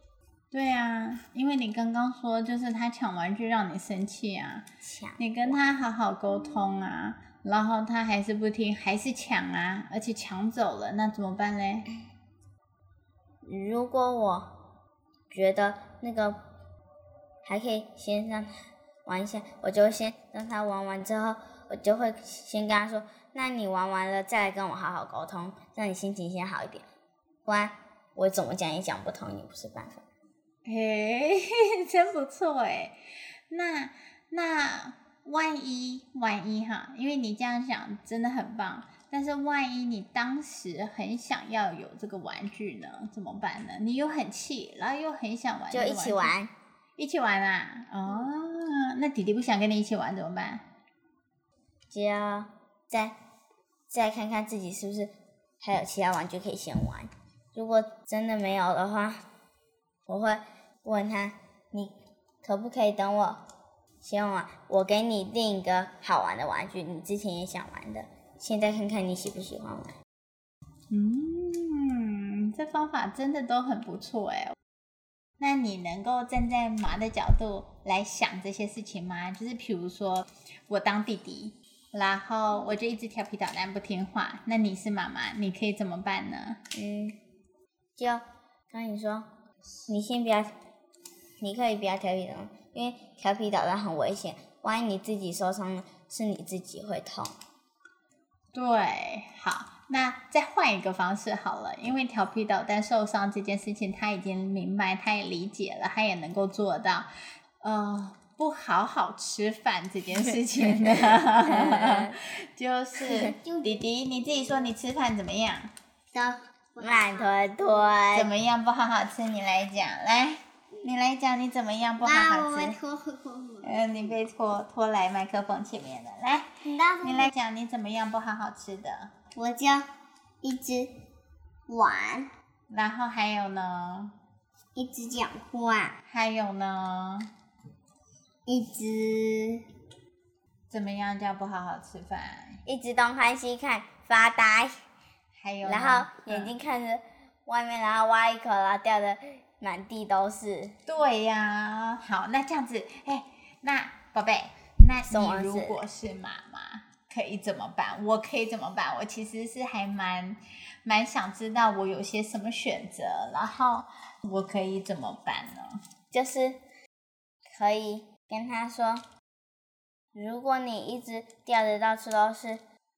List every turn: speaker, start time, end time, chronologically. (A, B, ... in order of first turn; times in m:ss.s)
0:00.5-0:04.6 A
0:04.8-0:05.6 B
0:05.2-0:11.9 A
0:13.4-0:14.5 B
0:15.3-0:16.4 B
0:17.4-0:18.5 B
0:19.0-0:26.8 B
0:27.4-0:30.0 B
0:30.6-0:33.0 A
0:33.5-0:46.3 A
0:45.7-0:46.5 B
0:47.0-0:50.6 A
0:51.9-0:53.1 B
0:53.9-0:59.2 B
1:00.1-1:03.4 B
1:04.0-1:09.9 B
1:10.9-1:14.6 A
1:15.4-1:26.6 A
1:26.7-1:27.2 B
1:28.0-1:29.2 B
1:29.9-1:30.5 B
1:31.4-1:37.3 B
1:38.5-1:47.1 A
1:47.6-1:55.7 A
1:50.9-1:52.2 B
1:53.0-1:54.7 C
1:56.1-1:57.9 C
1:56.8-1:58.3 B
1:58.1-2:02.8 A
2:02.0-2:03.8 C
2:03.6-2:06.5 A
2:06.6-2:07.3 C
2:07.0-2:09.1 A
2:09.3-2:09.9 C
2:10.4-2:10.9 C
2:11.7-2:12.3 C
2:12.7-2:14.1 A
2:14.7-2:16.0 C
2:16.1-2:17.3 A
2:18.5-2:19.6 C
2:20.7-2:22.6 A
2:22.6-2:24.8 B
2:25.4-2:26.5 A
2:25.6-2:30.7 B
2:30.8-2:45.8 A
2:35.1-2:35.8 B
2:46.1-2:46.6 B
2:47.6-2:49.0 B
2:50.1-2:52.6 B